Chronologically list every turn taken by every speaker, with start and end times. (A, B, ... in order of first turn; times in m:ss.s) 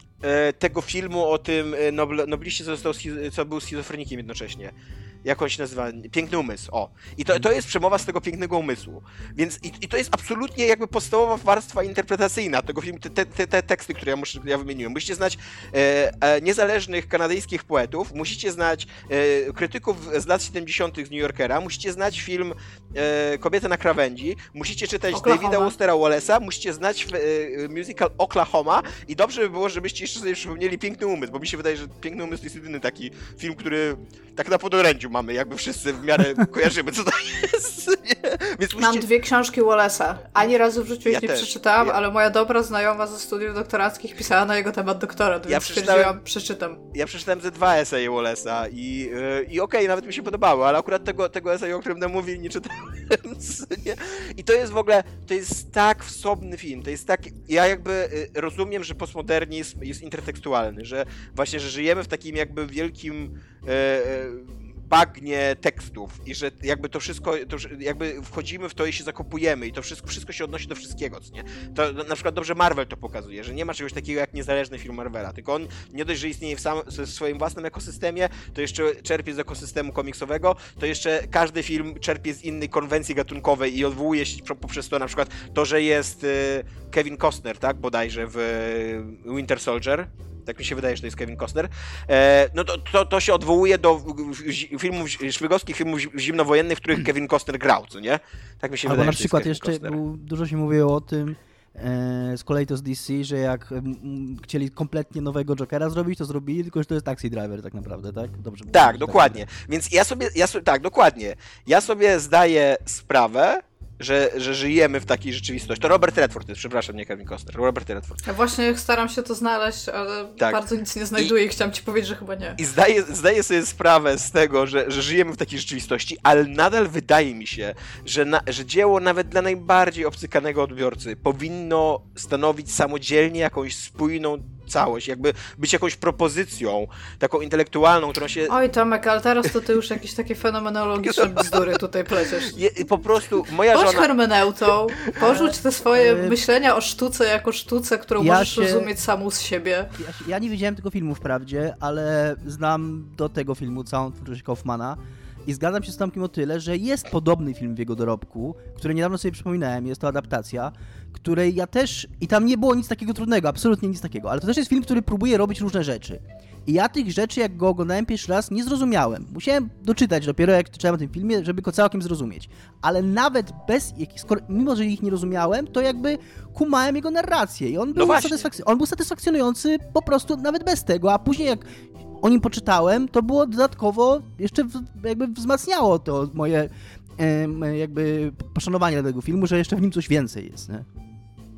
0:00.2-0:04.7 A
0:05.2-0:39.0 A
0:25.1-0:25.7 B
0:38.8-0:46.8 B
0:41.1-0:42.0 A
0:45.5-0:46.2 A
0:46.9-1:40.0 A
1:38.8-1:49.4 C
1:48.7-1:58.2 A
1:58.2-2:02.6 B
2:02.6-2:18.5 A
2:18.5-2:22.6 B
2:21.0-2:21.7 A
2:22.4-2:24.1 A
2:23.7-2:29.9 B
2:25.2-2:26.4 C
2:28.2-2:28.9 C
2:30.0-3:01.6 C
2:57.9-2:58.4 A
3:02.2-3:10.8 C